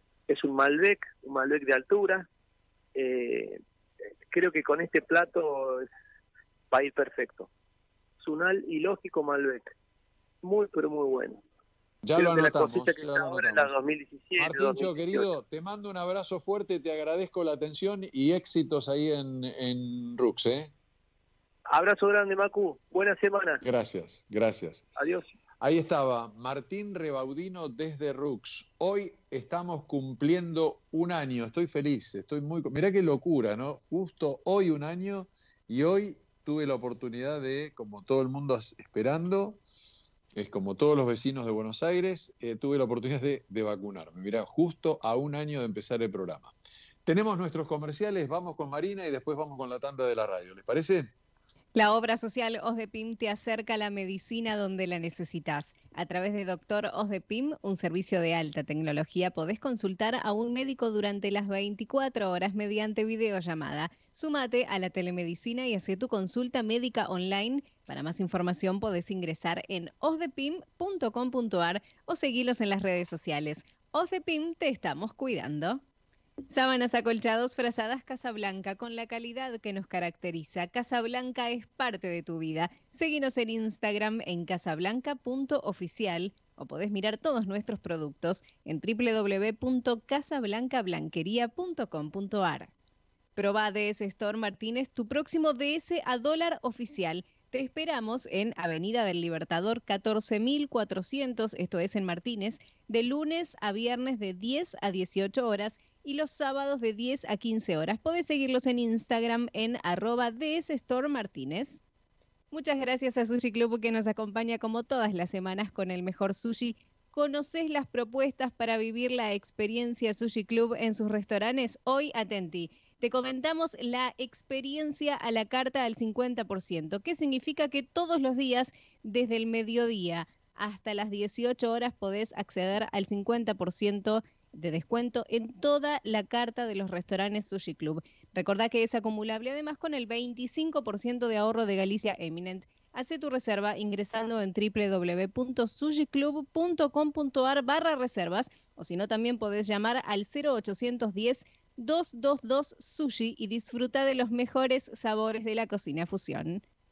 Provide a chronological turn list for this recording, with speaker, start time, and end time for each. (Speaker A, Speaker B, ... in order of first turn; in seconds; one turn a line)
Speaker A: 0.3-2.3
Speaker A: 2.9-3.6
Speaker A: 4.3-5.9
Speaker A: 6.7-7.5
Speaker A: 8.2-9.7
Speaker A: 10.4-11.4
Speaker B: 12.0-13.7
Speaker A: 12.2-15.3
Speaker B: 14.4-20.7
Speaker A: 21.7-23.6
Speaker B: 23.6-24.8
Speaker A: 25.0-25.3
Speaker B: 25.6-39.6
Speaker B: 40.3-46.5
Speaker B: 47.0-51.1
Speaker C: 51.7-75.8
Speaker C: 76.5-92.7
Speaker C: 93.3-111.8
Speaker C: 112.5-156.6